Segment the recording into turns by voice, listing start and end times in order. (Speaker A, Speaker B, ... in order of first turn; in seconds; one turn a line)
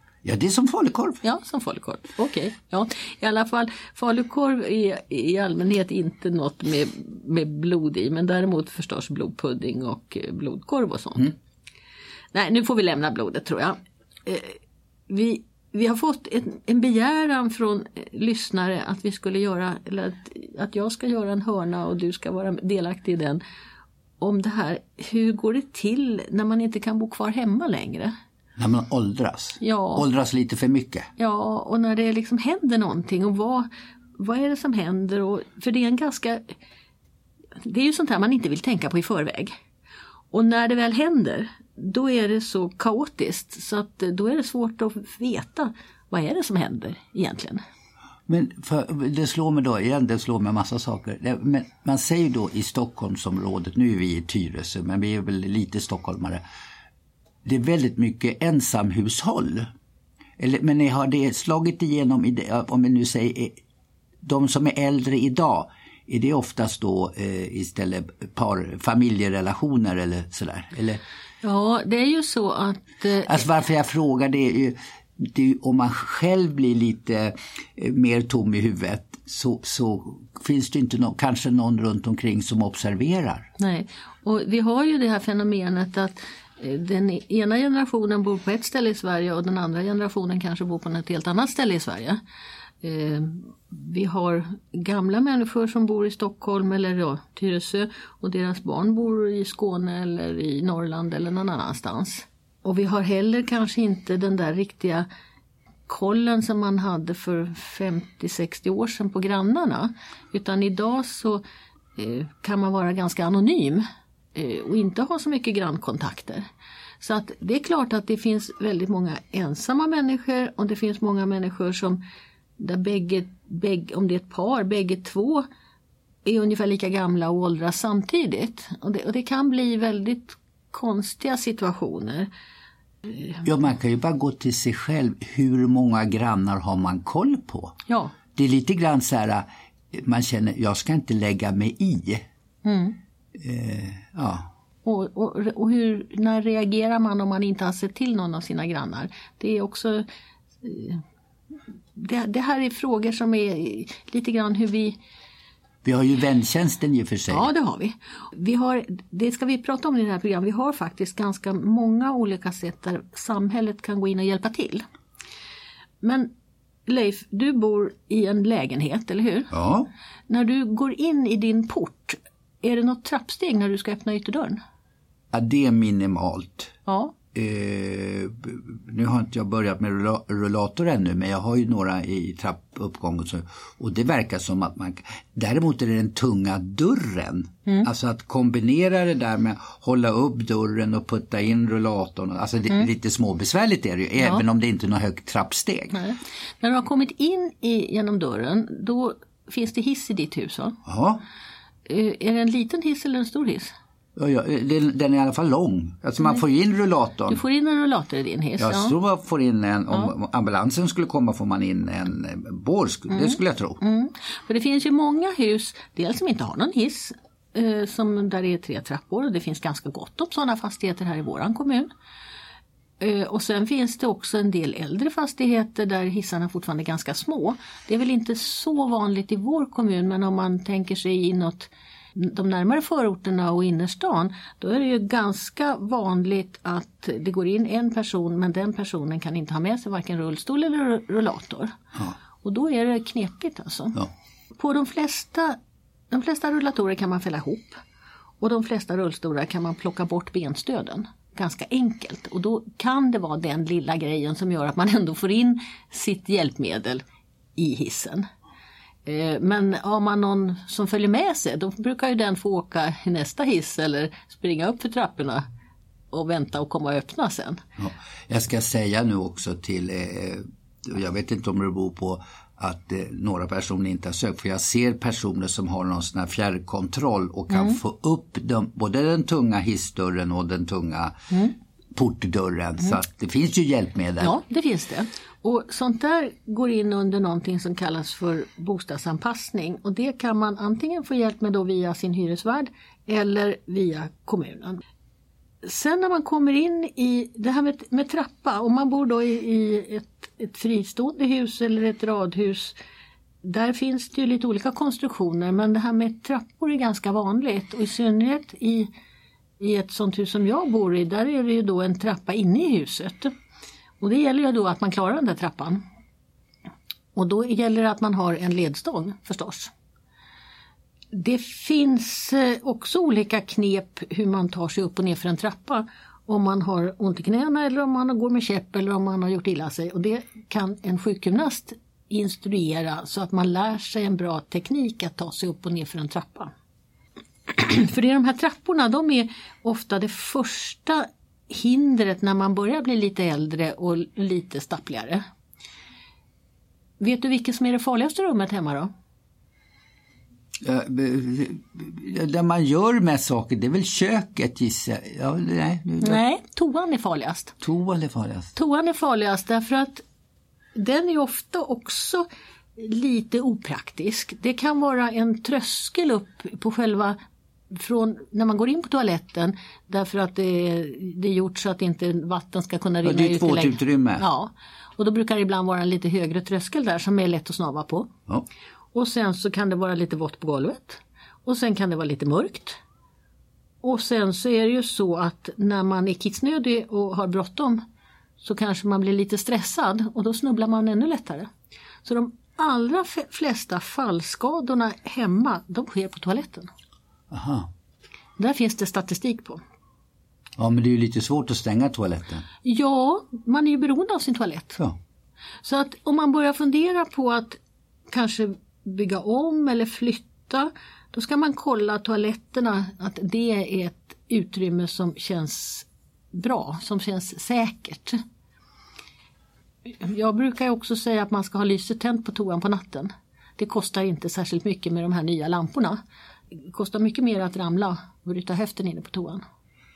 Speaker A: 0.2-1.2
Speaker B: 1.2-11.3
Speaker B: 12.3-14.6
Speaker B: 15.1-23.4
Speaker B: 24.2-28.1
Speaker A: 28.6-31.1
Speaker B: 29.6-30.0
Speaker B: 31.2-36.5
Speaker B: 37.6-39.5
Speaker B: 40.3-47.6
Speaker A: 48.3-56.4
Speaker A: 57.4-59.7
Speaker A: 60.4-63.6
Speaker A: 64.2-71.0
Speaker B: 71.4-73.4
Speaker A: 73.2-83.5
Speaker B: 83.6-92.2
Speaker B: 92.8-105.1
Speaker B: 105.9-111.4
Speaker B: 112.0-116.5
Speaker B: 117.0-122.0
Speaker B: 122.6-125.5
Speaker B: 126.2-132.3
Speaker B: 133.1-133.4
Speaker A: 133.4-137.8
Speaker B: 137.9-138.1
Speaker A: 138.3-142.2
Speaker B: 142.6-142.9
Speaker A: 143.3-144.5
Speaker B: 144.8-150.1
Speaker B: 150.6-151.0
Speaker B: 151.9-154.9
Speaker A: 155.8-157.5
Speaker B: 157.3-164.8
Speaker B: 166.0-166.3
Speaker B: 166.8-169.5
Speaker A: 169.5-169.9
Speaker B: 170.3-174.6
Speaker A: 175.3-176.7
Speaker B: 176.8-177.1
Speaker A: 177.3-196.0
Speaker B: 195.9-200.8
Speaker A: 200.8-201.2
Speaker B: 201.8-203.7
Speaker A: 204.2-207.4
Speaker B: 207.3-208.9
Speaker A: 208.6-213.8
Speaker B: 213.1-221.9
Speaker B: 223.0-241.8
Speaker B: 242.4-244.0
Speaker B: 244.5-245.6
Speaker B: 246.1-247.8
Speaker B: 248.4-257.0
Speaker B: 257.6-258.3
Speaker B: 259.1-265.4
Speaker B: 266.1-267.6
Speaker A: 267.8-281.1
Speaker B: 277.5-277.8
Speaker A: 281.9-284.4
Speaker B: 284.2-294.8
Speaker B: 295.6-302.8
Speaker B: 303.4-308.9
Speaker B: 309.6-313.3
Speaker B: 314.0-315.8
Speaker B: 317.1-319.7
Speaker B: 321.1-336.5
Speaker B: 337.5-345.2
Speaker B: 347.0-348.9
Speaker A: 350.6-356.2
Speaker B: 356.0-357.5
Speaker A: 357.6-358.5
Speaker B: 358.5-360.0
Speaker B: 360.8-362.2
Speaker B: 362.8-367.2
Speaker B: 367.7-378.1
Speaker A: 373.0-374.2
Speaker B: 378.9-382.8
Speaker B: 383.8-387.8
Speaker B: 388.4-391.5
Speaker B: 392.0-396.7
Speaker A: 397.3-397.7
Speaker B: 398.4-399.6
Speaker A: 400.6-402.4
Speaker B: 402.6-404.8
Speaker B: 405.6-407.6
Speaker B: 408.1-418.2
Speaker B: 419.9-426.0
Speaker B: 426.6-429.4